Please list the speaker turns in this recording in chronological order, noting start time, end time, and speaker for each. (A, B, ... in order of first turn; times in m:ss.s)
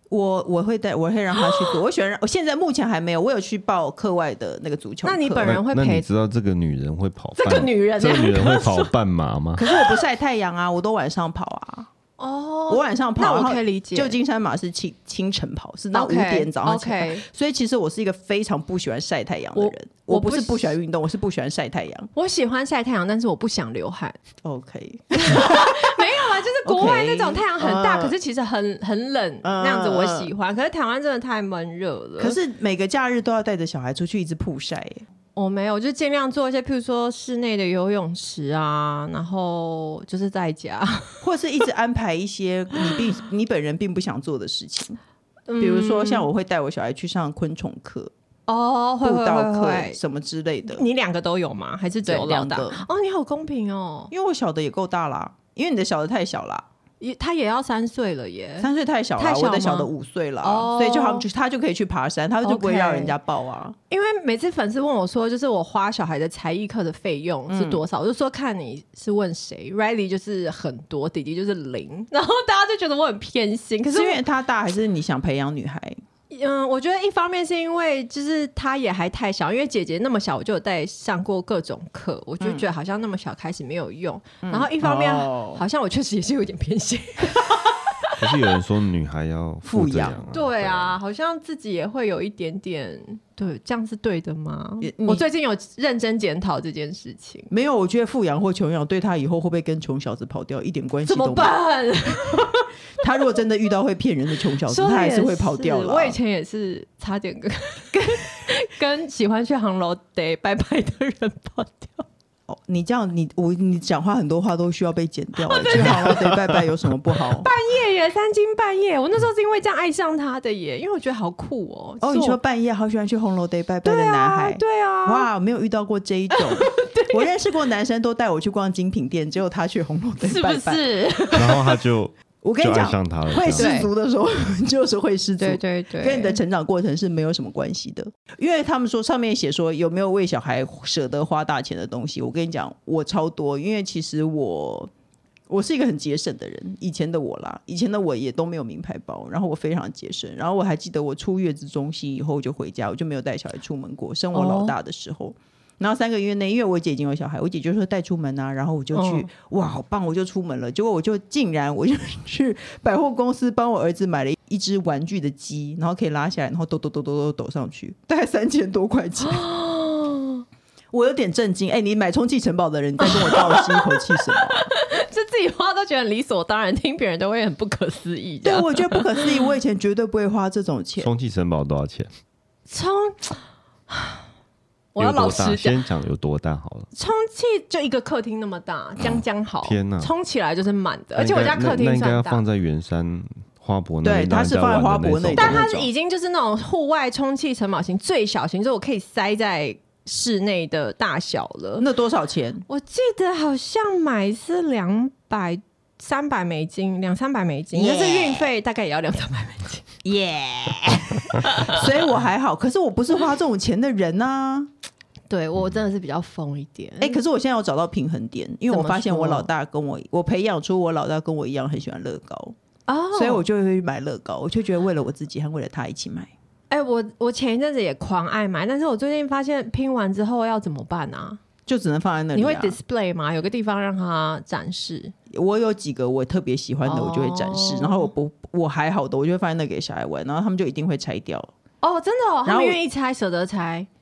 0:00.1-0:05.5 A
0:01.4-0:01.8 B
0:05.0-0:06.1 B
0:05.4-0:09.6 C
0:07.4-0:08.9 B
0:09.6-0:11.9 A
0:09.7-0:10.0 B
0:12.2-0:14.2 B
0:12.7-0:22.1 A
0:15.9-0:17.2 B
0:19.6-0:20.8 B
0:22.2-0:24.2 B
0:24.4-0:26.0 A
0:25.1-0:32.4 B
0:26.6-0:28.1 A
0:29.4-0:30.3 A
0:32.2-0:35.0 A
0:35.4-0:41.2 B
0:41.2-0:45.0 A
0:45.5-0:46.3 B
0:45.6-0:48.1 A
0:48.5-0:50.0 B
0:49.0-0:50.8 A
0:50.7-0:54.1 B
0:52.0-0:52.8 A
0:54.1-0:56.6 A
0:57.0-1:01.2 B
0:58.6-1:03.8 A
1:02.4-1:03.1 B
1:03.9-1:14.2 B
1:07.5-1:07.8 A
1:13.9-1:16.0 A
1:16.3-1:28.4 B
1:24.4-1:25.6 A
1:28.2-1:31.0 C
1:29.6-1:30.2 A
1:30.3-1:37.5 B
1:34.8-1:35.2 A
1:37.5-1:41.5 A
1:41.0-1:42.7 B
1:43.0-1:46.2 A
1:44.6-1:52.0 B
1:52.5-1:57.5 A
1:55.4-1:56.3 B
1:57.2-2:02.4 B
2:02.0-2:11.2 A
2:03.8-2:05.3 B
2:06.3-2:07.3 B
2:10.2-2:11.8 B
2:11.3-2:13.8 C
2:12.4-2:24.9 A
2:13.5-2:13.9 B
2:15.4-2:16.4 B
2:25.5-2:49.4 A
2:34.3-2:34.7 B
2:38.9-2:39.3 B
2:49.2-2:50.4 B
2:50.9-2:54.7 A
2:53.0-2:59.4 B
2:58.4-3:01.1 A
3:01.0-3:02.1 C
3:02.7-3:04.2 B
3:04.9-3:05.8 B
3:05.0-3:06.9 C
3:06.9-3:12.4 B
3:09.0-3:10.1 C
3:11.2-3:15.6 C
3:14.0-3:15.9 A
3:15.4-3:21.8 B
3:21.8-3:22.6 A
3:22.7-3:29.9 B
3:27.7-3:28.5 A
3:30.0-3:34.7 A
3:31.4-3:31.8 B
3:35.3-3:37.2 B
3:37.0-3:42.5 A
3:38.7-3:39.5 B
3:42.9-3:43.4 B
3:43.1-3:46.3 A
3:46.7-3:51.4 B
3:51.6-3:52.8 A
3:52.3-3:55.1 B
3:55.3-4:01.5 A
3:56.8-3:58.1 B
4:01.8-4:03.9 B
4:02.4-4:02.8 A